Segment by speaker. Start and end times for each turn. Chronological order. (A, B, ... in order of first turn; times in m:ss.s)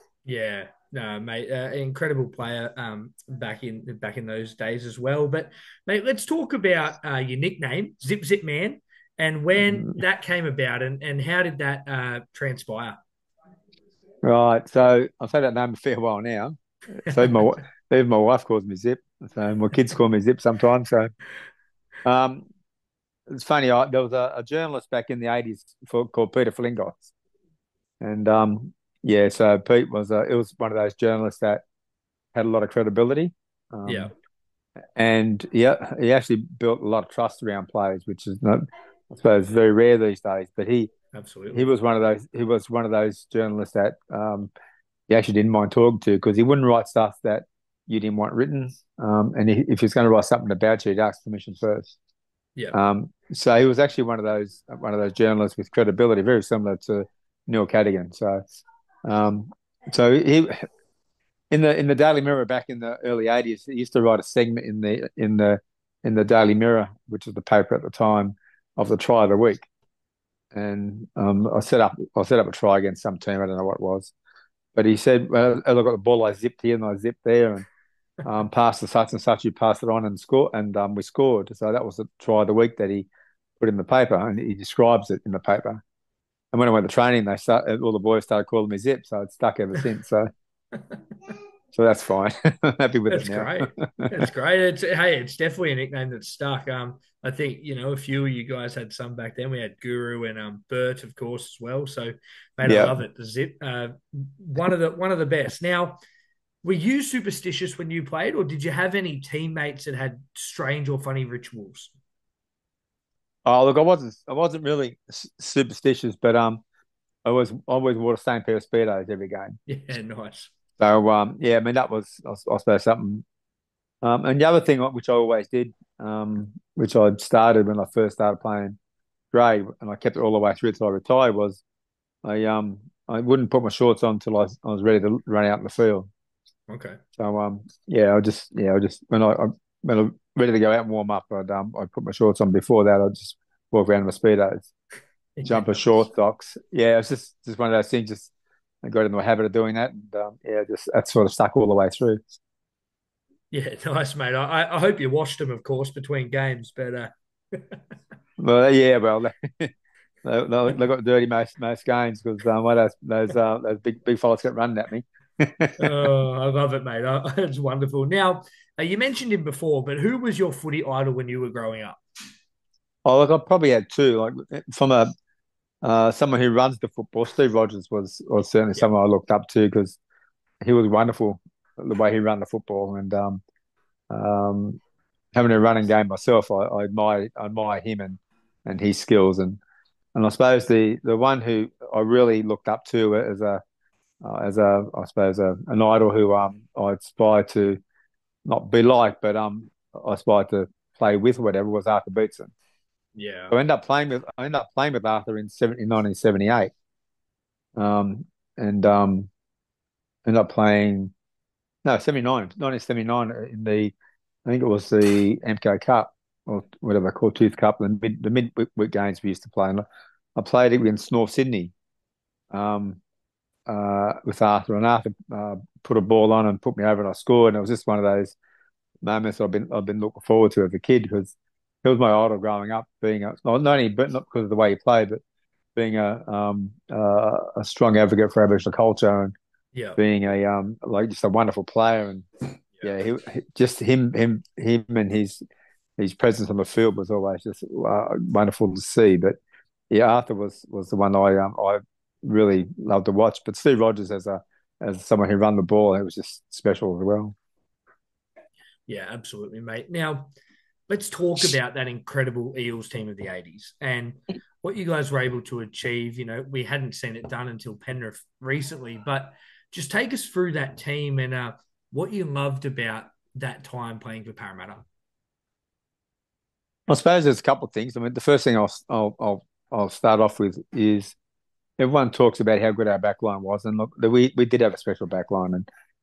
0:00.2-0:13.0 A
0:14.2-0:21.1 B
0:22.0-0:22.5 B
0:23.3-0:27.1 B
0:28.0-0:31.6 B
0:32.3-0:34.1 B
0:33.9-0:34.1 A
0:35.0-0:40.9 B
0:41.1-0:41.6 A
0:41.5-0:44.5 B
0:45.1-0:52.0 B
0:52.7-0:58.4 B
0:59.0-1:00.7 B
1:01.5-1:09.7 B
1:10.5-1:14.1 B
1:14.8-1:17.7 B
1:18.2-1:23.1 B
1:23.6-1:25.8 B
1:26.5-1:30.3 B
1:31.7-1:34.3 B
1:33.1-1:46.0 A
1:42.6-1:42.9 B
1:46.6-1:51.9 A
1:53.4-1:56.6 B
1:57.2-1:59.6 B
1:59.7-2:00.5 A
2:00.8-2:03.2 B
2:04.0-2:08.8 B
2:09.3-2:11.6 B
2:12.2-2:16.1 B
2:16.7-2:17.0 A
2:17.2-2:24.7 B
2:25.4-2:25.8 A
2:25.4-2:28.3 B
2:28.8-2:32.2 B
2:33.5-2:37.8 A
2:38.4-2:39.7 B
2:40.2-2:46.1 B
2:45.8-2:52.0 A
2:53.0-2:55.1 B
2:55.8-3:00.0 B
3:00.6-3:03.4 B
3:04.1-3:04.8 B
3:05.3-3:09.6 B
3:10.1-3:13.6 B
3:14.2-3:17.8 B
3:18.5-3:22.5 B
3:23.2-3:23.5 A
3:23.5-3:26.7 B
3:27.8-3:29.3 B
3:30.2-3:31.1 B
3:31.8-3:34.0 B
3:34.5-3:41.7 B
3:42.5-3:43.0 B
3:43.7-3:48.4 B
3:49.0-3:55.2 B
3:55.8-3:59.3 B
3:59.7-4:00.0 A
4:00.0-4:02.3 B
4:02.8-4:05.4 B
4:06.0-4:09.4 B
4:09.9-4:17.4 B
4:18.9-4:20.3 A
4:20.9-4:34.8 A
4:36.9-4:41.2 B
4:41.8-4:45.6 B